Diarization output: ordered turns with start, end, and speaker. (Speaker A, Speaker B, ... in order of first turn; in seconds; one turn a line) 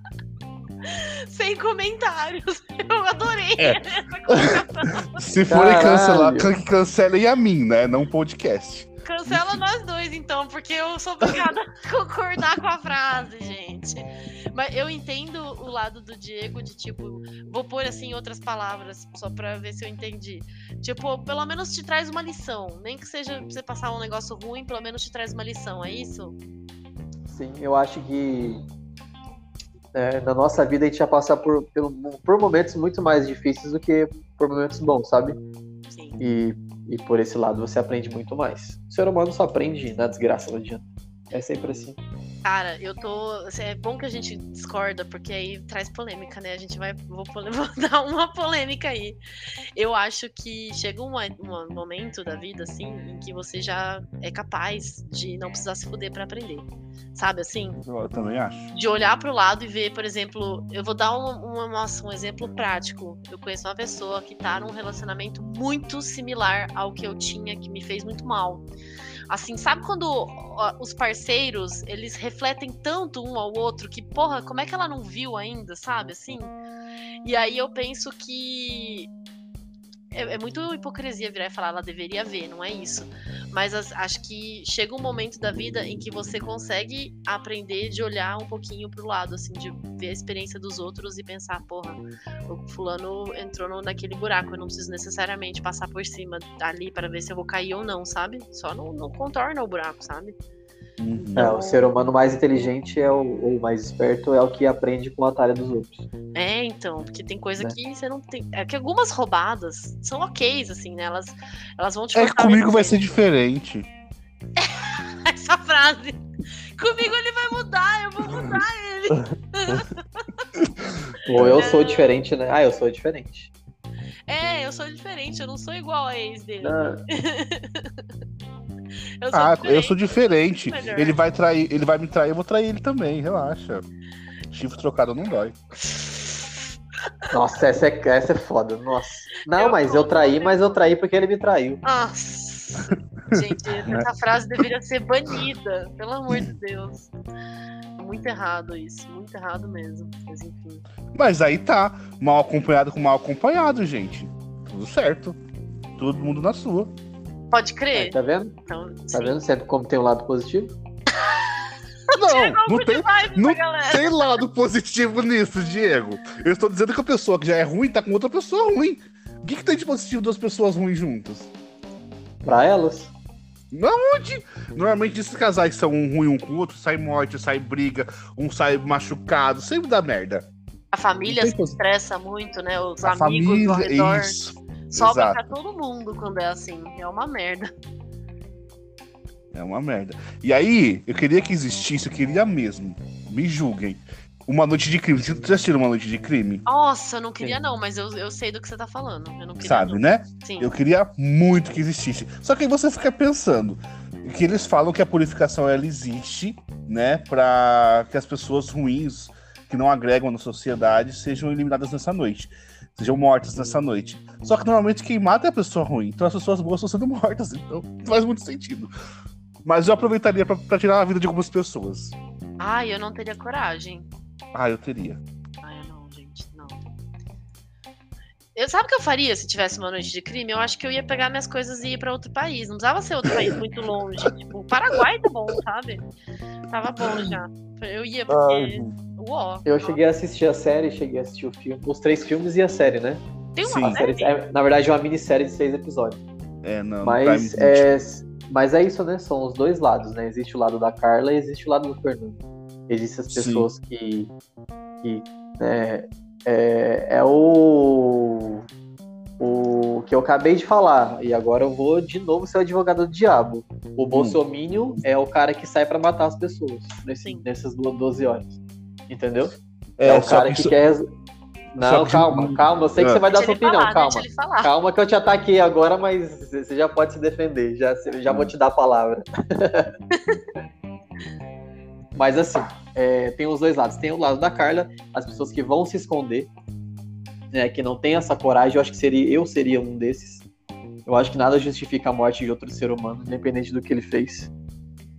Speaker A: 0.8-5.3
Speaker B: 3.6-9.6
Speaker C: 5.5-6.5
Speaker A: 9.1-26.3
Speaker B: 11.2-11.5
Speaker C: 27.3-28.6
Speaker C: 29.9-35.4
Speaker A: 35.9-36.2
Speaker C: 36.2-42.0
Speaker A: 42.4-49.2
Speaker A: 49.8-57.8
Speaker B: 57.8-58.7
Speaker A: 58.7-68.7
Speaker A: 69.3-76.5
Speaker A: 77.2-79.1
Speaker A: 80.1-100.3
Speaker B: 101.0-101.5
Speaker A: 101.2-101.9
Speaker C: 101.3-106.0
Speaker A: 106.3-113.0
Speaker B: 112.1-113.9
Speaker A: 114.6-116.2
Speaker A: 116.8-120.4
Speaker B: 120.6-121.6
Speaker C: 121.3-123.5
Speaker A: 121.5-122.2
Speaker A: 124.3-128.0
Speaker C: 126.6-127.0
Speaker A: 129.2-130.0
Speaker B: 129.3-133.8
Speaker A: 130.7-131.2
Speaker B: 134.5-135.5
Speaker A: 135.8-136.6
Speaker C: 137.3-141.8
Speaker A: 139.5-140.8
Speaker A: 141.8-147.1
Speaker B: 142.8-144.1
Speaker A: 148.0-150.8
Speaker B: 151.1-155.3
Speaker B: 156.0-156.9
Speaker A: 157.5-158.2
Speaker C: 157.9-158.5
Speaker A: 158.7-159.4
Speaker C: 159.1-160.7
Speaker A: 161.1-164.3
Speaker B: 162.2-171.5
Speaker C: 172.4-173.1
Speaker B: 173.7-180.4
Speaker A: 180.9-184.3
Speaker B: 181.2-181.8
Speaker B: 183.0-185.5
Speaker A: 184.9-187.7
Speaker B: 189.5-196.6
Speaker A: 196.7-200.7
Speaker B: 199.6-218.9
Speaker B: 219.6-222.1
Speaker A: 222.6-224.1
Speaker B: 224.5-225.2
Speaker A: 225.6-226.8
Speaker A: 228.5-236.0
Speaker B: 233.2-233.6
Speaker A: 236.7-240.0
Speaker B: 237.0-237.3
Speaker B: 238.3-238.9
Speaker C: 239.7-243.2
Speaker A: 243.6-244.3
Speaker B: 243.6-244.0
Speaker C: 243.8-246.2
Speaker B: 246.6-247.9
Speaker C: 247.0-254.3
Speaker B: 253.3-253.7
Speaker C: 255.0-258.6
Speaker C: 259.4-271.1
Speaker B: 264.1-264.4
Speaker B: 270.0-270.7
Speaker C: 271.7-279.9
Speaker B: 271.8-273.2
Speaker A: 273.3-274.7
Speaker C: 282.1-286.5
Speaker C: 287.5-290.4
Speaker C: 291.1-294.5